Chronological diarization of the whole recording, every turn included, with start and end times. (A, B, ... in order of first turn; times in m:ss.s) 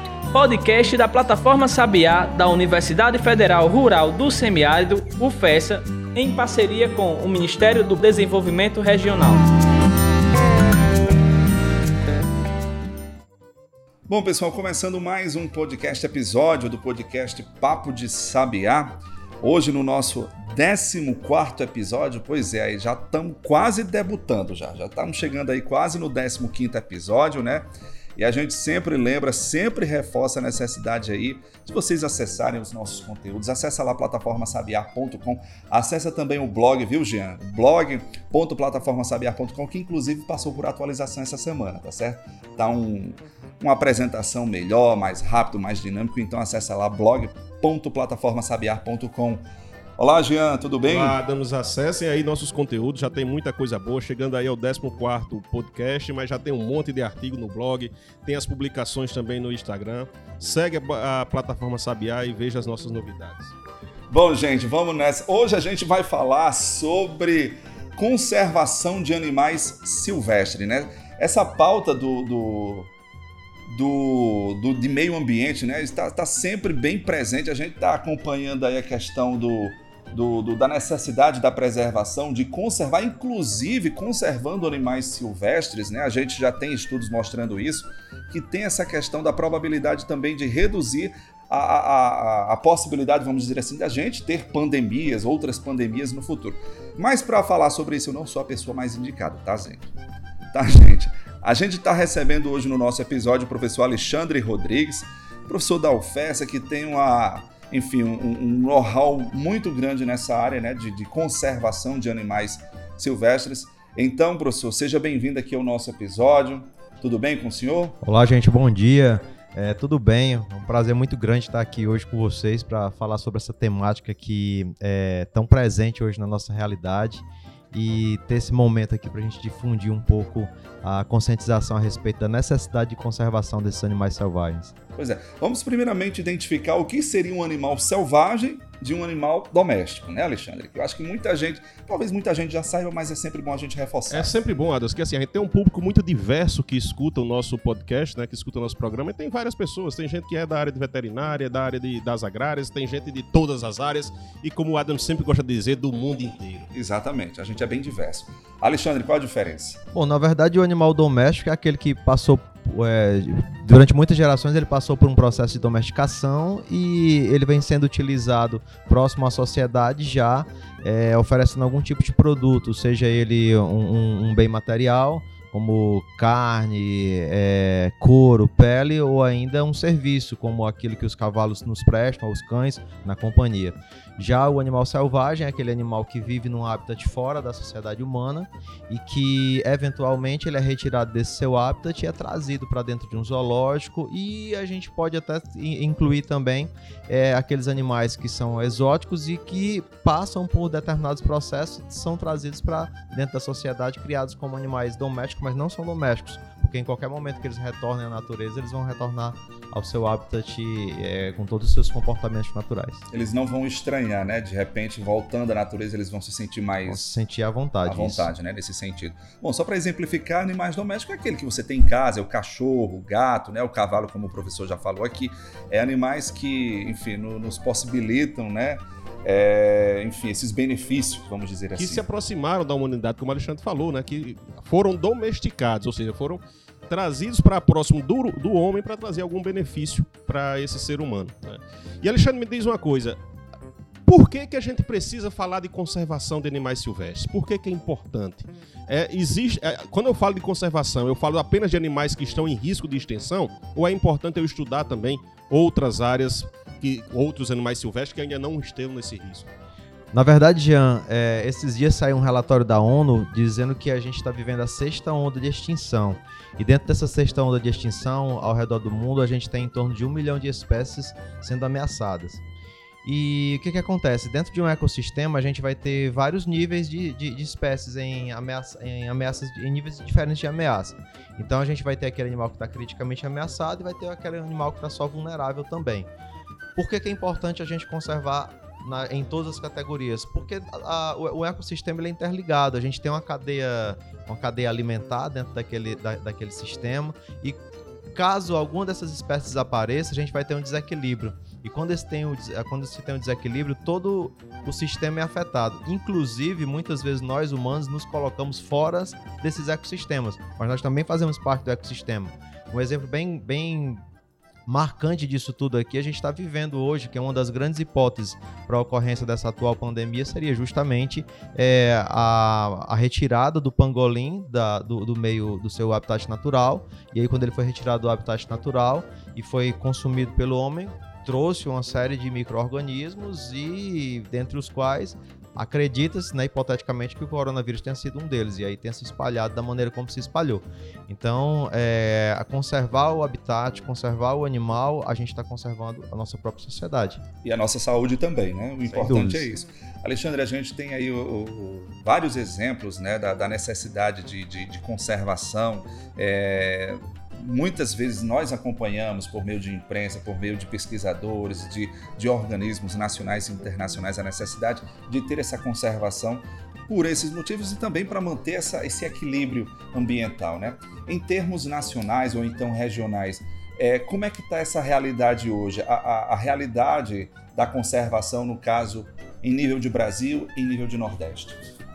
0:00.3-0:09.4 A
0:14.1-0:49.4 B
0:50.0-0:51.2 B
0:50.9-1:03.6 C
1:04.1-1:12.9 B
1:13.7-1:39.9 B
1:40.5-1:58.0 B
1:58.0-2:14.7 D
2:15.0-2:24.3 B
2:24.1-2:36.7 C
2:36.7-2:39.8 B
2:39.9-3:33.0 D
3:33.1-3:37.2 B
3:36.9-3:38.3 D
3:37.8-3:52.0 B
3:51.8-4:03.2 C
4:04.1-4:19.5 C
4:20.1-4:32.4 D
4:33.0-4:46.1 D
4:46.8-4:57.6 D
4:58.2-5:14.0 D
5:14.7-5:47.2 D
5:47.4-6:21.8 B
5:48.8-5:49.5 D